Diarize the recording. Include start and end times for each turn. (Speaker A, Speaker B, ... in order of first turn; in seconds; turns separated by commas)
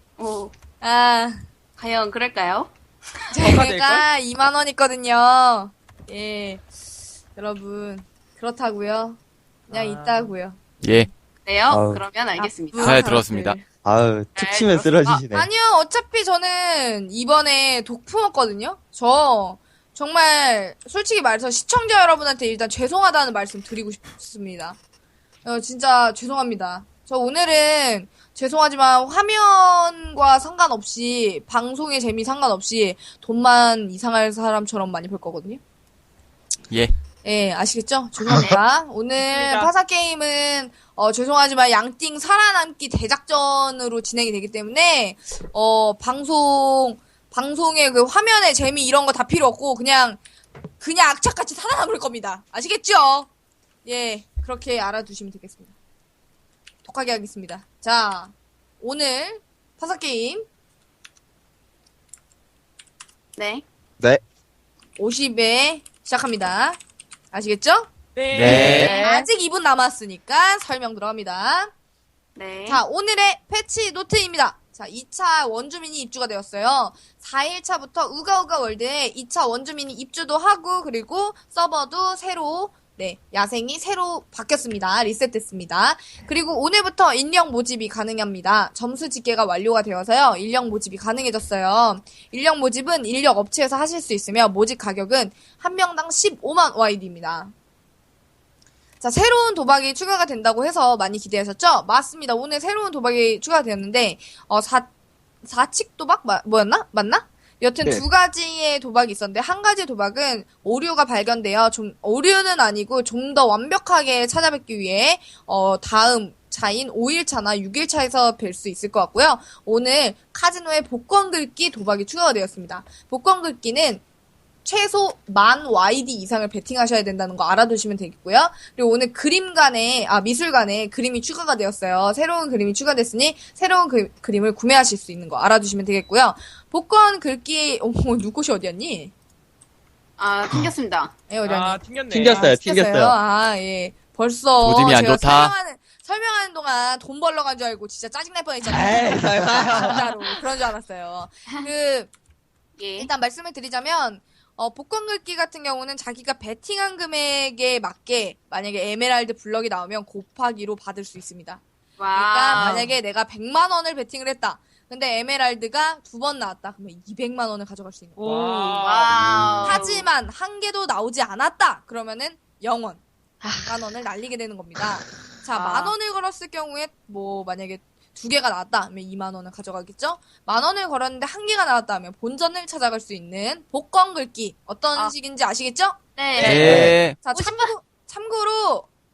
Speaker A: 0.2-0.5, Speaker B: 0.8-1.4, Speaker A: 1.8-2.7, Speaker B: 3.3-6.6, Speaker C: 3.4-4.0, Speaker B: 7.3-9.2, Speaker C: 9.7-10.3, Speaker B: 9.7-10.6, Speaker D: 10.8-11.1, Speaker A: 11.4-13.0, Speaker E: 11.7-12.0, Speaker B: 12.4-13.6, Speaker D: 12.8-13.6, Speaker E: 13.8-15.5, Speaker A: 14.3-15.2, Speaker B: 15.3-24.8, Speaker B: 25.4-35.6, Speaker B: 37.2-50.2, Speaker C: 39.2-39.7, Speaker B: 50.8-53.3, Speaker B: 53.8-55.7, Speaker B: 56.8-60.5, Speaker A: 63.4-63.6, Speaker B: 65.0-66.8, Speaker B: 67.3-67.9, Speaker C: 68.2-69.1, Speaker E: 68.3-68.9, Speaker A: 68.3-69.2, Speaker D: 68.4-68.9, Speaker B: 68.4-71.7, Speaker A: 72.3-72.8, Speaker B: 72.7-97.5, Speaker B: 99.0-104.9, Speaker B: 105.4-124.0, Speaker B: 124.6-139.1, Speaker A: 140.2-141.1, Speaker B: 141.3-152.1, Speaker C: 141.5-142.5, Speaker E: 142.1-143.1, Speaker D: 144.6-145.5, Speaker E: 148.7-149.9, Speaker A: 152.8-153.1, Speaker B: 153.0-161.6, Speaker A: 162.0-162.9, Speaker B: 162.1-168.2, Speaker A: 168.2-170.1, Speaker C: 168.2-169.2, Speaker B: 169.6-173.0, Speaker A: 173.4-173.8, Speaker B: 173.5-188.9, Speaker A: 175.5-175.9, Speaker A: 186.2-187.7, Speaker D: 186.4-187.2, Speaker E: 186.7-186.9